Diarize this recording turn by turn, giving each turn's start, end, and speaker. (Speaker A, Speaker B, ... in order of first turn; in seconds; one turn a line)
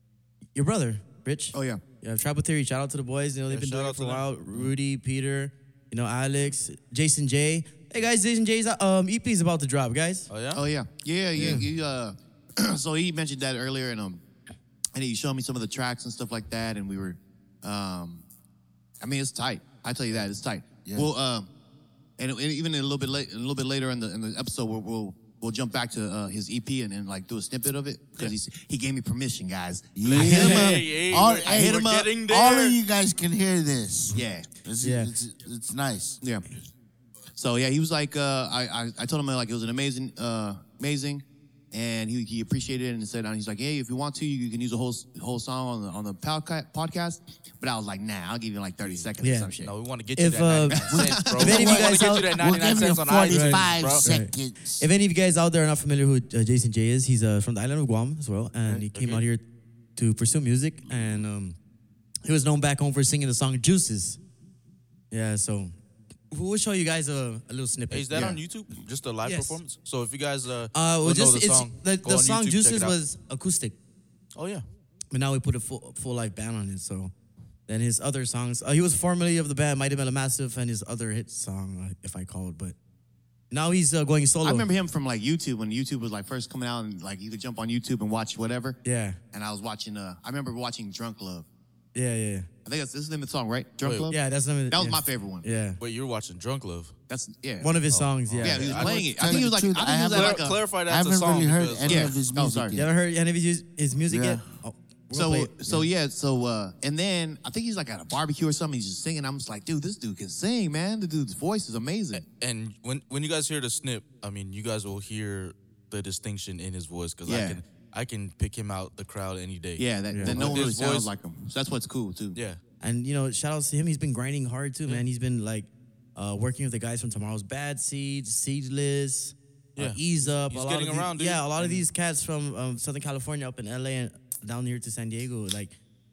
Speaker A: 0.5-10.3
Speaker B: 1.5-1.8
Speaker C: 3.5-4.7
Speaker C: 10.3-10.6
Speaker B: 10.5-14.2
Speaker A: 11.4-11.6
Speaker B: 14.9-18.2
Speaker B: 19.0-21.5
Speaker D: 20.8-21.1
Speaker B: 22.2-30.9
Speaker D: 29.9-36.2
Speaker C: 30.1-32.8
Speaker A: 30.1-30.7
Speaker B: 31.5-32.1
Speaker B: 34.1-34.5
Speaker A: 34.8-35.1
Speaker B: 37.3-49.7
Speaker C: 48.8-54.0
Speaker A: 49.2-49.5
Speaker A: 50.1-52.4
Speaker B: 50.7-51.6
Speaker D: 50.9-54.8
Speaker A: 53.3-59.4
Speaker C: 58.9-59.2
Speaker A: 60.0-61.6
Speaker A: 62.2-64.2
Speaker A: 65.1-65.7
Speaker A: 66.3-68.3
Speaker C: 67.9-73.0
Speaker B: 68.1-68.4
Speaker A: 69.2-69.6
Speaker A: 70.7-73.8
Speaker C: 74.3-74.6
Speaker A: 75.1-77.1
Speaker A: 77.7-82.7
Speaker A: 83.5-84.7
Speaker B: 84.4-88.8
Speaker A: 88.8-89.2
Speaker B: 89.3-91.5
Speaker A: 91.9-92.5
Speaker B: 92.6-94.2
Speaker C: 93.8-94.1
Speaker A: 94.1-95.8
Speaker B: 94.7-95.5
Speaker C: 95.8-96.9
Speaker B: 97.1-97.7
Speaker A: 97.6-98.9
Speaker C: 97.9-102.2
Speaker B: 98.4-100.6
Speaker D: 98.8-102.9
Speaker B: 101.8-102.8
Speaker A: 102.7-105.9
Speaker D: 104.1-104.4
Speaker B: 105.1-112.2
Speaker C: 112.1-121.1
Speaker B: 117.3-117.6
Speaker B: 119.8-122.4
Speaker A: 120.1-120.5
Speaker A: 122.8-135.7
Speaker C: 129.8-131.8